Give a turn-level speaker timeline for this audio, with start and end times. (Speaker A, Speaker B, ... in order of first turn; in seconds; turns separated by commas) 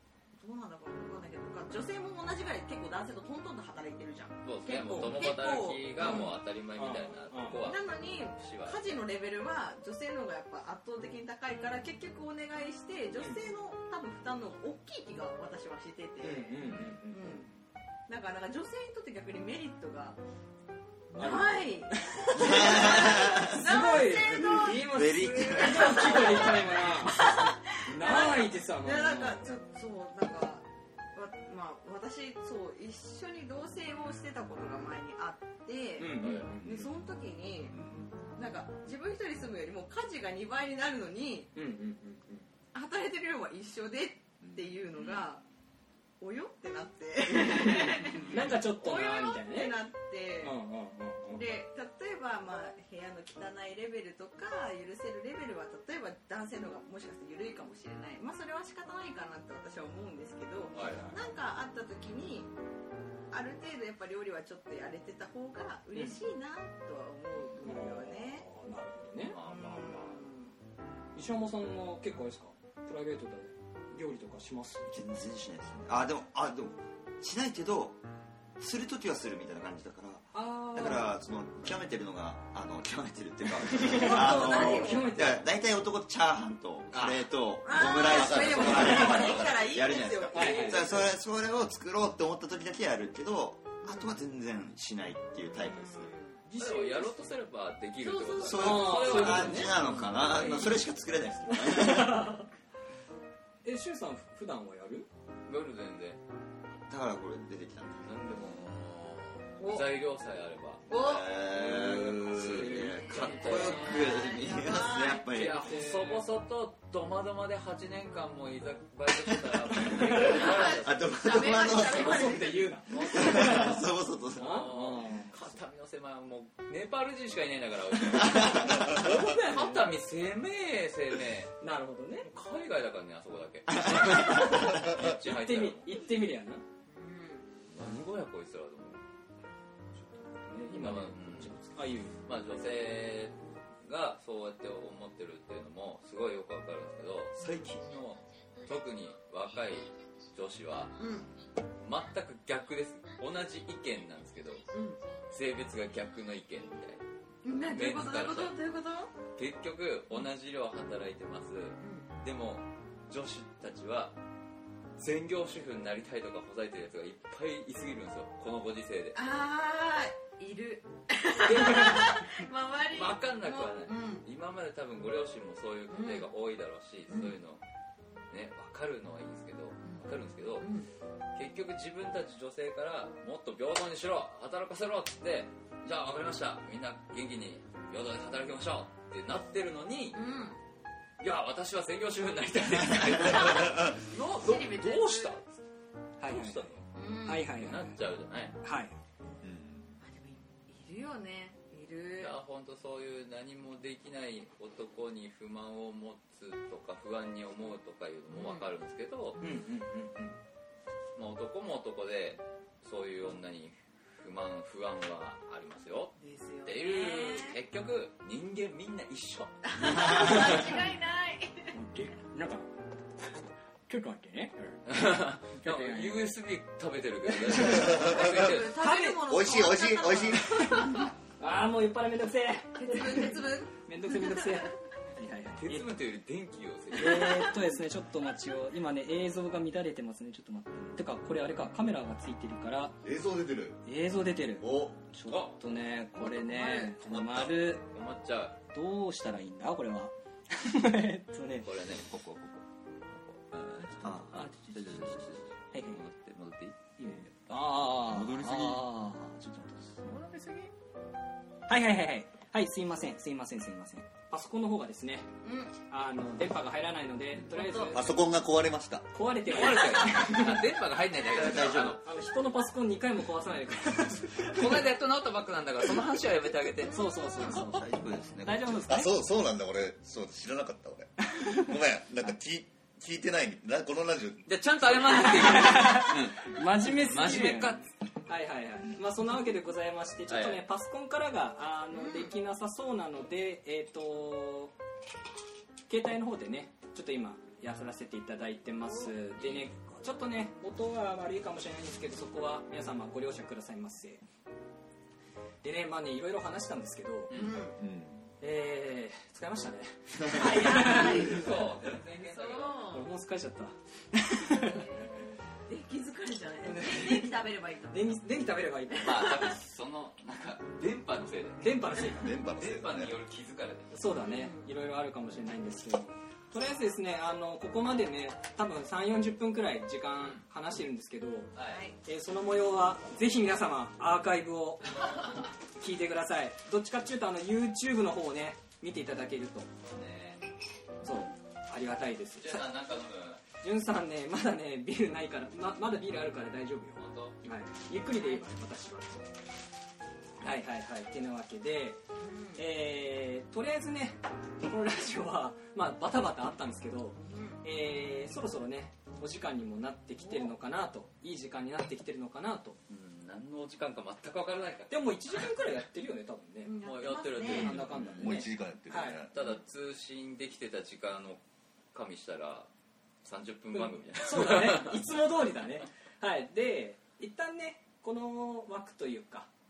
Speaker A: 0.3-6.4, Speaker B: 4.4-9.0, Speaker C: 6.0-7.6, Speaker A: 7.6-17.5, Speaker C: 16.2-17.4, Speaker B: 16.6-16.9, Speaker A: 18.1-20.2, Speaker A: 21.1-41.5, Speaker C: 21.1-27.3, Speaker D: 22.3-26.8, Speaker C: 27.8-29.4, Speaker C: 36.0-36.9, Speaker B: 36.2-36.5, Speaker E: 37.7-38.1, Speaker C: 41.5-42.4, Speaker A: 42.7-45.4, Speaker A: 46.2-50.6, Speaker C: 47.3-49.8, Speaker C: 50.4-51.4, Speaker A: 51.3-62.5, Speaker B: 60.7-61.1, Speaker C: 60.8-61.2, Speaker A: 63.3-68.5, Speaker C: 65.9-66.2, Speaker C: 67.6-69.4, Speaker B: 69.2-70.2, Speaker A: 69.4-70.5, Speaker C: 71.1-75.0, Speaker D: 74.9-78.0, Speaker D: 78.6-96.1, Speaker C: 80.3-81.2, Speaker C: 83.6-85.4, Speaker A: 83.9-85.0, Speaker A: 87.6-91.1, Speaker E: 87.7-89.6, Speaker B: 88.4-89.4, Speaker C: 90.3-91.0, Speaker A: 93.8-94.1, Speaker A: 95.5-96.9, Speaker C: 96.5-97.0, Speaker B: 96.6-101.0, Speaker A: 98.0-98.8, Speaker D: 98.4-102.3, Speaker C: 98.6-99.8, Speaker C: 101.5-102.5, Speaker C: 103.6-105.1, Speaker B: 105.5-106.2, Speaker D: 106.9-108.2, Speaker B: 108.0-110.8, Speaker A: 109.6-109.9, Speaker A: 110.9-111.3, Speaker D: 110.9-115.7, Speaker B: 111.4-114.0, Speaker C: 112.5-113.7, Speaker A: 112.7-115.3, Speaker B: 115.3-121.2, Speaker C: 115.6-116.2, Speaker D: 119.3-124.7, Speaker C: 119.9-120.4, Speaker A: 120.2-123.2, Speaker C: 121.8-123.8, Speaker B: 122.9-123.8, Speaker B: 124.3-131.6, Speaker C: 124.4-125.6, Speaker D: 128.2-128.9, Speaker C: 128.8-129.9, Speaker C: 131.6-132.3, Speaker B: 132.2-135.9, Speaker D: 133.7-134.5, Speaker C: 134.1-136.6, Speaker A: 136.9-137.5, Speaker B: 137.7-139.0, Speaker C: 139.9-142.2, Speaker B: 140.7-141.5, Speaker B: 142.2-151.0, Speaker A: 147.4-147.7, Speaker A: 151.0-151.3, Speaker B: 151.8-154.7, Speaker A: 154.7-155.0, Speaker B: 155.3-157.0, Speaker A: 157.4-159.1, Speaker B: 157.6-158.6, Speaker B: 159.3-164.2, Speaker A: 161.8-162.1, Speaker B: 165.0-169.2, Speaker A: 169.1-174.2, Speaker C: 171.5-172.1, Speaker B: 171.5-172.2, Speaker B: 172.9-177.6, Speaker A: 175.9-176.3, Speaker A: 177.1-177.3, Speaker B: 178.3-180.7, Speaker A: 179.8-180.9, Speaker B: 181.3-190.2, Speaker A: 190.1-190.6, Speaker B: 191.2-195.6, Speaker A: 193.2-195.3, Speaker C: 196.2-198.0, Speaker B: 196.2-198.6, Speaker A: 196.9-197.5, Speaker C: 198.6-198.9, Speaker E: 199.4-200.0, Speaker A: 200.0-202.3, Speaker B: 202.2-209.4, Speaker A: 208.3-208.7, Speaker A: 209.4-209.6, Speaker C: 209.4-210.4, Speaker B: 211.2-220.8, Speaker A: 216.2-217.6, Speaker A: 219.6-221.7, Speaker C: 221.7-224.9, Speaker B: 224.8-228.7, Speaker C: 225.5-226.3, Speaker C: 227.2-228.0, Speaker E: 227.6-228.4, Speaker A: 228.0-231.1, Speaker C: 228.8-229.2, Speaker E: 229.2-230.8, Speaker C: 230.6-235.9, Speaker A: 232.8-234.6, Speaker B: 235.6-237.7, Speaker C: 236.9-243.0, Speaker E: 243.0-243.8, Speaker C: 243.8-247.8, Speaker E: 244.6-245.1, Speaker B: 245.3-245.6, Speaker E: 246.2-247.6, Speaker B: 247.9-248.6, Speaker C: 248.7-251.7, Speaker B: 251.6-256.8, Speaker C: 253.8-256.0, Speaker D: 254.0-254.4, Speaker C: 257.0-260.2, Speaker E: 258.1-258.8, Speaker C: 261.7-265.3, Speaker A: 265.4-265.7, Speaker C: 265.8-268.1, Speaker A: 267.5-267.9, Speaker E: 267.9-269.1, Speaker C: 269.1-270.6, Speaker B: 269.5-272.0, Speaker D: 271.3-271.9, Speaker C: 271.9-274.9, Speaker B: 274.5-277.0, Speaker C: 276.9-277.9, Speaker D: 277.4-278.8, Speaker C: 278.4-279.1, Speaker E: 278.9-284.5, Speaker C: 281.3-281.7, Speaker B: 284.5-287.9, Speaker C: 285.1-294.7, Speaker B: 290.3-290.6, Speaker A: 291.9-292.3, Speaker C: 295.9-304.2, Speaker B: 299.4-299.7, Speaker C: 305.6-307.3, Speaker B: 307.3-307.6, Speaker A: 307.3-307.8, Speaker E: 307.8-308.3, Speaker C: 308.4-311.5, Speaker A: 310.4-313.1, Speaker B: 310.5-312.8, Speaker C: 312.9-314.8, Speaker A: 314.5-318.2, Speaker C: 316.6-319.2, Speaker A: 318.9-319.5, Speaker B: 319.0-322.0, Speaker C: 321.6-322.4, Speaker E: 322.1-323.2, Speaker B: 322.6-323.9, Speaker C: 323.9-331.5, Speaker A: 324.1-324.7, Speaker B: 331.5-331.8, Speaker A: 331.6-332.0, Speaker C: 332.0-335.2, Speaker C: 335.8-339.7, Speaker B: 339.9-340.4, Speaker C: 341.0-342.7, Speaker B: 342.4-343.4, Speaker C: 343.6-349.2, Speaker B: 346.9-347.4, Speaker A: 348.1-348.4, Speaker C: 350.4-352.0, Speaker A: 352.2-352.6, Speaker C: 352.5-362.8, Speaker A: 357.2-357.6, Speaker A: 360.2-360.5, Speaker B: 362.9-365.4, Speaker C: 364.9-366.7, Speaker A: 366.6-367.8, Speaker B: 366.8-368.2, Speaker C: 367.4-369.2, Speaker E: 367.6-369.3, Speaker B: 369.3-371.4, Speaker B: 371.9-372.7, Speaker B: 373.2-375.0, Speaker C: 373.7-379.5